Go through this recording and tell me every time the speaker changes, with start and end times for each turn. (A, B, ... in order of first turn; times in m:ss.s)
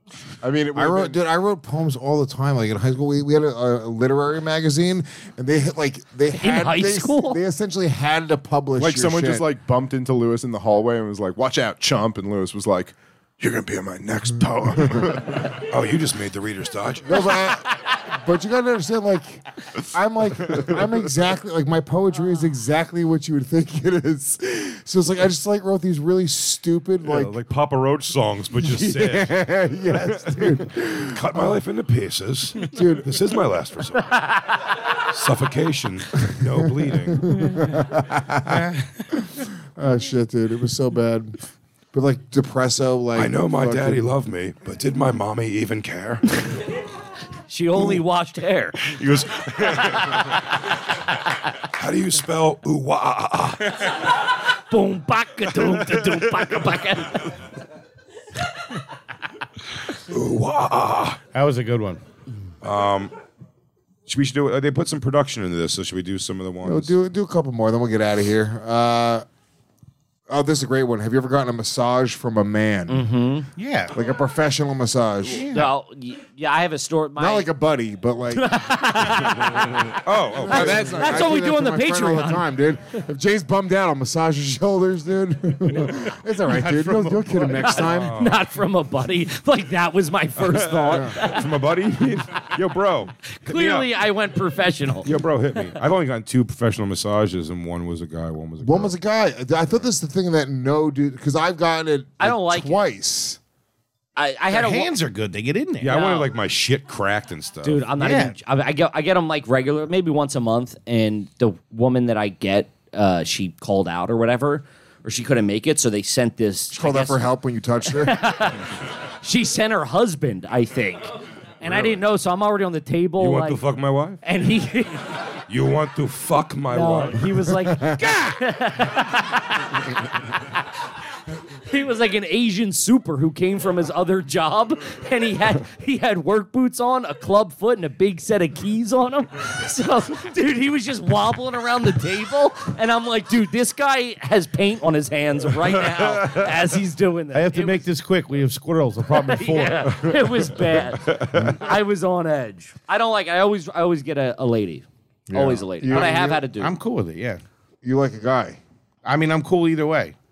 0:00.4-0:01.2 A
0:00.7-0:09.4 B
0:06.4-0:07.4 C
0:08.8-0:15.4 A
0:15.7-0:17.4 D
0:17.0-0:27.4 B
0:27.0-0:34.2 D
0:28.6-0:31.5 B
0:32.7-0:33.1 B
0:35.1-0:37.2 D
0:36.7-0:38.7 B
0:39.8-0:41.4 B
0:41.9-0:44.1 B
0:43.2-0:46.2 D
0:47.5-0:48.9 C
0:48.8-0:50.4 D
0:49.8-0:50.2 C
0:51.8-0:53.9 D
0:54.7-0:57.3 C
0:55.6-0:56.2 D
1:00.1-1:01.2 D
1:01.3-1:02.0 E
1:02.6-1:03.1 D
1:04.1-1:06.9 D
1:06.6-1:09.2 B
1:10.3-1:13.0 B
1:12.9-1:13.4 C
1:13.6-1:13.9 E
1:13.9-1:15.5 B
1:15.3-1:15.7 E
1:15.5-1:17.5 C
1:17.2-1:18.5 B
1:18.3-1:19.9 C
1:20.0-1:21.0 D
1:20.4-1:28.2 B
1:20.5-1:22.5 C
1:26.4-1:27.7 E
1:27.6-1:31.4 C
1:27.8-1:28.4 D
1:30.4-1:33.9 D
1:30.9-1:31.2 B
1:33.4-1:35.8 C
1:35.0-1:39.0 D
1:38.6-1:43.4 B
1:42.2-1:42.8 C
1:44.2-1:44.9 C
1:44.5-1:46.0 E
1:45.8-1:47.9 D
1:45.9-1:46.3 C
1:47.6-1:57.3 C
1:48.0-1:48.4 E
1:56.7-1:58.2 B
1:58.0-1:58.6 C
1:59.2-2:01.1 C
2:01.6-2:03.6 C
2:01.6-2:02.0 D
2:03.2-2:04.2 D
2:04.2-2:05.0 C
2:05.5-2:07.2 D
2:06.7-2:09.8 C
2:07.6-2:08.0 B
2:11.7-2:27.9 C
2:27.3-2:30.2 E
2:29.2-2:36.7 C
2:31.0-2:31.6 D
2:35.3-2:36.4 B
2:36.6-2:37.4 E
2:37.8-2:38.6 B
2:39.0-2:40.1 E